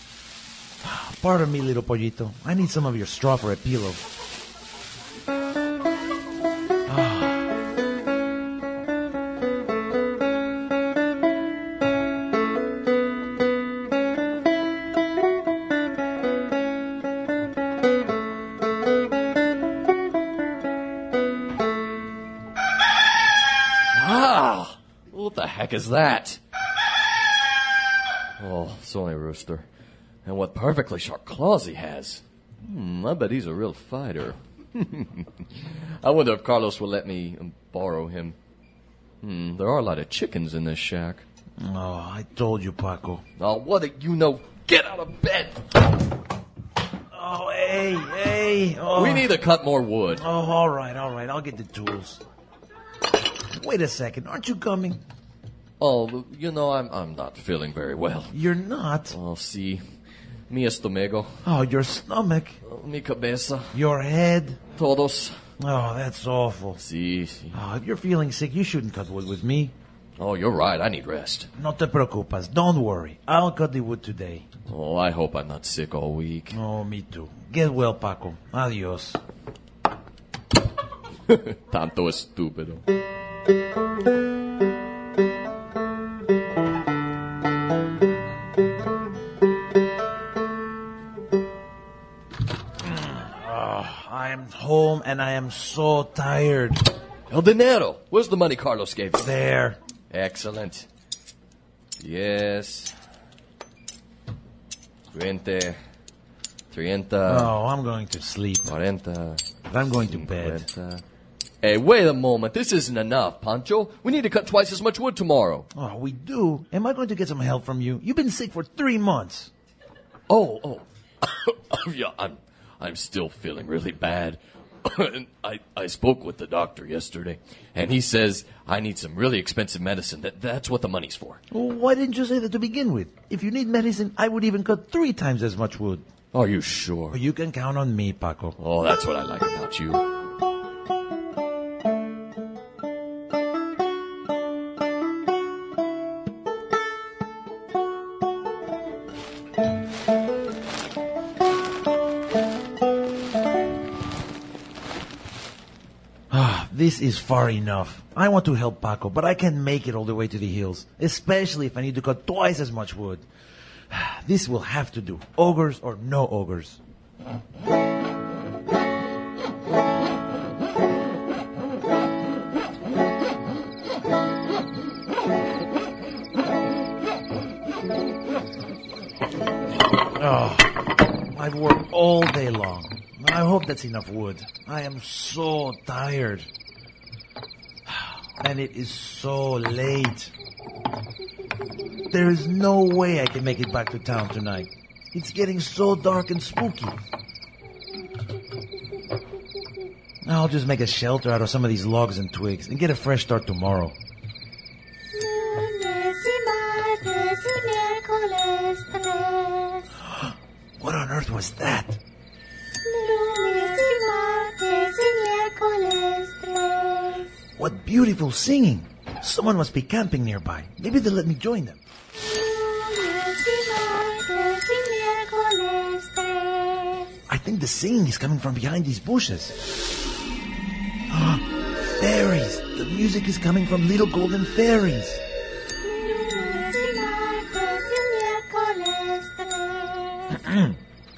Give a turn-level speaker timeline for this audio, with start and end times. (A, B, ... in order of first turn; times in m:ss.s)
0:00.8-0:04.0 A
0:06.9-0:07.5 A
0:23.9-0:26.4 B
0:28.4-0:29.7 B
0:30.2-0:38.4 B
0:39.2-0:41.2 B
0:41.6-0:43.2 A
0:43.4-0:45.6 B
0:47.1-0:49.3 A
0:49.0-0:50.2 B
0:50.2-0:52.2 A
0:53.5-0:55.0 A
0:55.8-0:58.4 B
0:58.3-0:59.2 A
0:59.1-0:59.8 B
1:00.5-1:01.4 B
1:01.4-1:02.6 A
1:02.6-1:03.8 B
1:03.7-1:04.6 A
1:04.8-1:05.4 B
1:05.6-1:06.8 A
1:06.8-1:07.6 B
1:07.5-1:09.7 A
1:10.2-1:11.5 B
1:11.6-1:14.5 A
1:14.7-1:16.6 B
1:16.5-1:19.2 A
1:21.3-1:22.8 B
1:32.8-1:36.8 A
1:37.3-1:39.3 B
1:39.2-1:39.8 A
1:40.1-1:40.9 B
1:42.0-1:42.9 B
1:45.1-1:45.8 B
1:46.7-1:47.5 B
1:47.3-1:48.8 A
1:48.7-1:49.4 B
1:49.7-1:50.6 A
1:50.0-1:51.0 B
1:51.6-1:55.7 B
1:55.7-1:59.5 A
2:00.3-2:11.4 B
2:11.5-2:16.0 A
2:16.3-2:17.2 B
2:17.1-2:18.6 A
2:18.6-2:20.0 B
2:36.3-2:43.2 A
2:43.9-2:46.8 A
3:00.1-3:06.5 A
3:07.9-3:10.3 A
3:12.1-3:17.0 A
3:20.2-3:24.0 A
3:25.1-3:29.9 C
3:30.1-3:32.0 A
3:32.8-3:37.3 C
3:37.6-3:41.8 A
3:42.4-3:47.1 C
3:47.3-3:49.6 A
3:51.1-3:55.2 A
3:55.8-4:00.3 C
4:00.3-4:00.8 A